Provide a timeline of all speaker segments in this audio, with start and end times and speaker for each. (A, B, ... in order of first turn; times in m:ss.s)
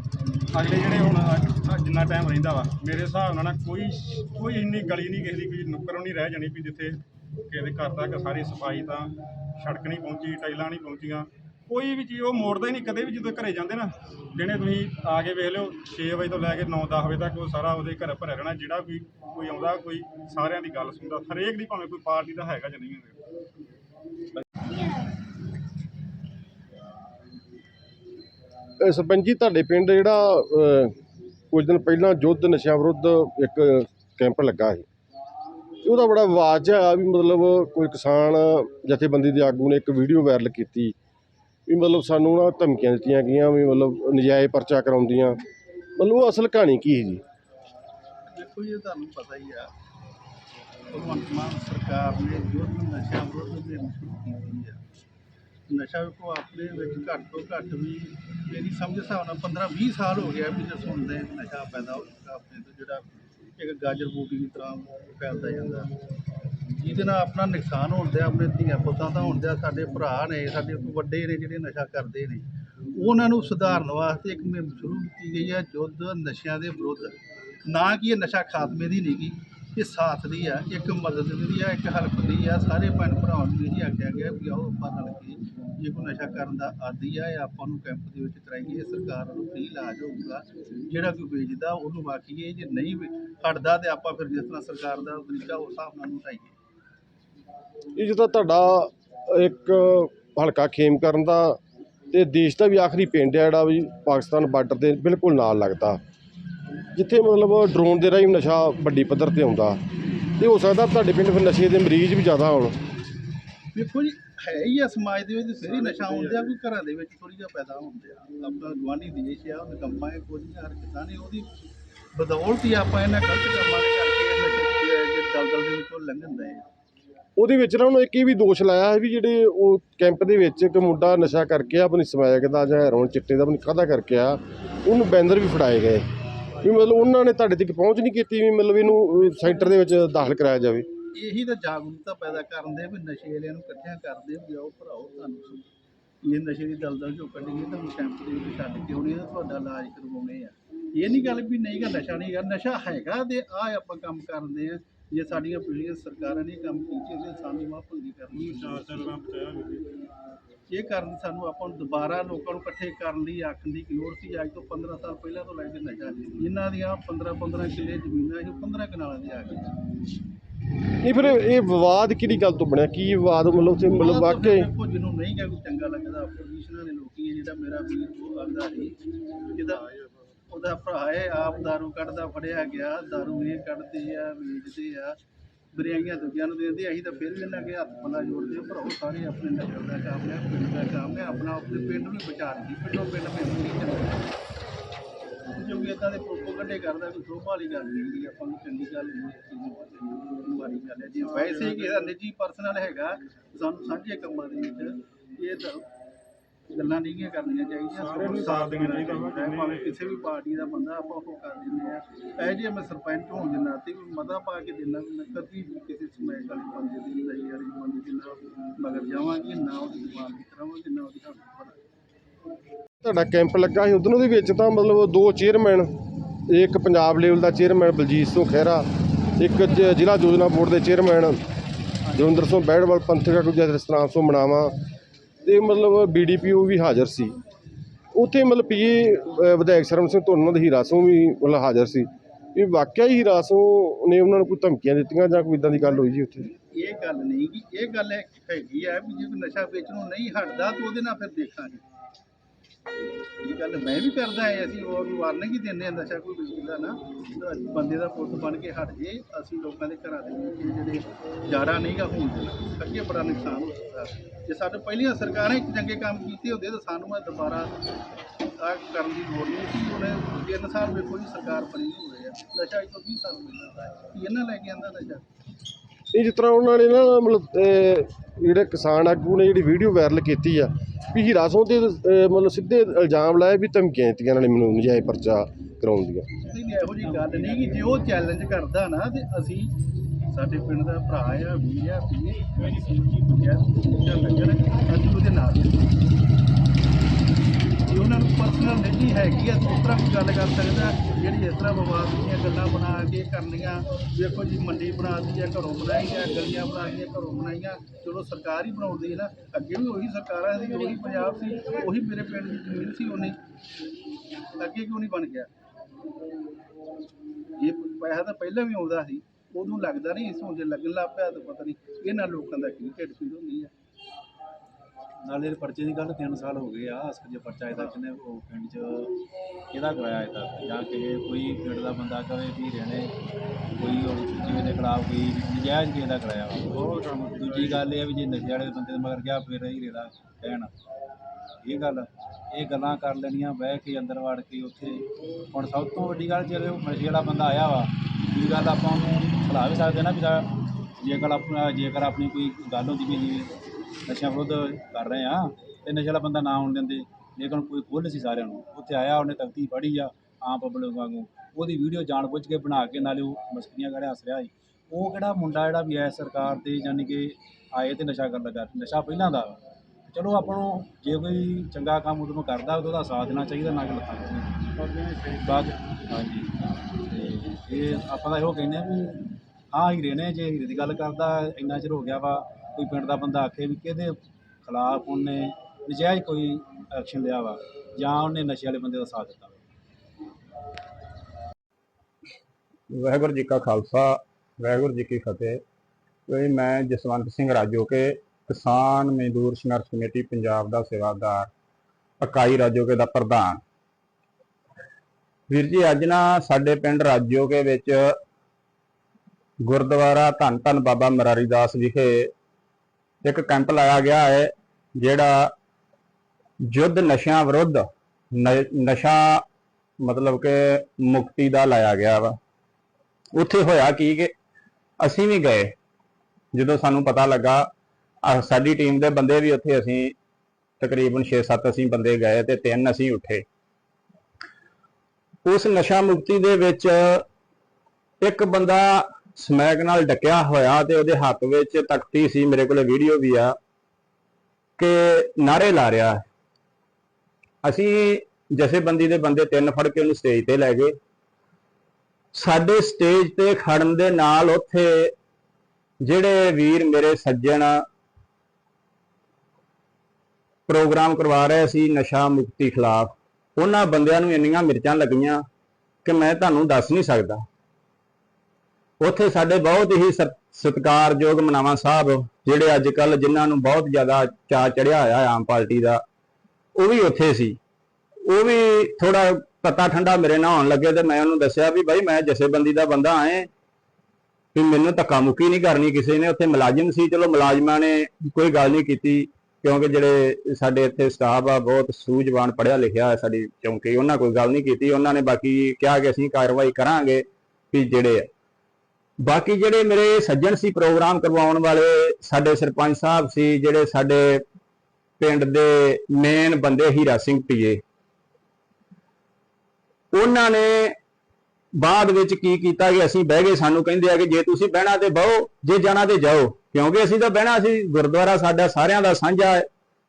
0:00.5-0:23.2 A
0:28.8-0:30.9 B
0:31.5-0:34.9 B
0:35.8-0:41.0 B
0:41.7-0:45.4 B
0:46.0-0:47.2 B
0:48.3-0:49.7 C
0:50.9-0:54.8 C
0:55.7-1:05.9 C
1:06.8-1:36.5 C
1:38.0-1:41.6 B
1:42.1-1:46.0 B
1:46.9-1:49.8 B
1:50.4-1:52.8 B
1:53.7-2:01.5 C
1:55.7-1:56.5 A
2:02.1-2:06.6 C
2:07.4-2:16.1 B
2:16.6-2:20.9 B
2:21.1-2:25.6 C
2:26.2-2:39.1 C
2:38.3-2:39.9 A
2:40.7-2:49.7 C
2:51.0-2:54.7 B
2:53.9-2:59.0 C
2:59.5-2:59.9 C
3:00.5-3:05.2 C
3:05.7-3:14.3 C
3:15.5-3:25.8 C
3:21.3-3:22.0 A
3:26.7-3:41.8 C
3:27.9-3:30.3 A
3:43.0-3:45.9 B
3:46.5-3:51.4 B
3:52.1-3:54.7 B
3:55.4-3:57.4 B
3:58.1-4:06.5 B
4:06.7-4:11.8 C
4:13.4-4:27.7 C
4:28.6-4:35.2 C
4:36.1-4:46.3 B
4:46.4-4:49.7 C
4:47.0-4:48.2 D
4:50.3-4:55.8 C
4:57.9-5:13.4 C
5:14.6-5:15.5 C
5:17.6-5:23.7 C
5:25.2-5:29.1 D
5:29.7-5:33.1 D
5:33.7-5:40.7 D
5:36.7-5:37.8 A
5:41.6-5:53.5 D
5:54.1-6:09.6 D
6:10.1-6:14.7 D
6:14.8-6:15.8 A
6:15.4-6:16.5 D
6:17.0-6:29.6 D
6:32.9-6:35.6 E
6:36.3-6:41.5 E
6:42.2-6:43.6 E
6:45.5-6:48.1 E
6:49.6-6:52.3 E
6:53.2-6:55.5 E
6:56.6-6:59.4 E
7:00.0-7:02.4 E
7:03.3-7:04.3 E
7:05.0-7:05.7 E
7:06.5-7:07.7 E
7:08.2-7:10.1 E
7:10.8-7:13.4 E
7:15.4-7:17.2 E
7:18.2-7:23.5 E
7:24.8-7:26.2 E
7:27.6-7:30.9 E
7:32.3-7:35.1 E
7:36.0-7:37.8 E
7:40.7-7:45.4 E
7:46.0-7:47.4 E
7:49.0-7:56.0 E
7:56.8-7:57.6 E
7:58.3-8:03.5 E
8:04.5-8:18.3 E
8:19.2-8:24.4 E
8:25.2-8:27.8 E
8:30.1-8:31.0 E
8:31.8-8:39.6 E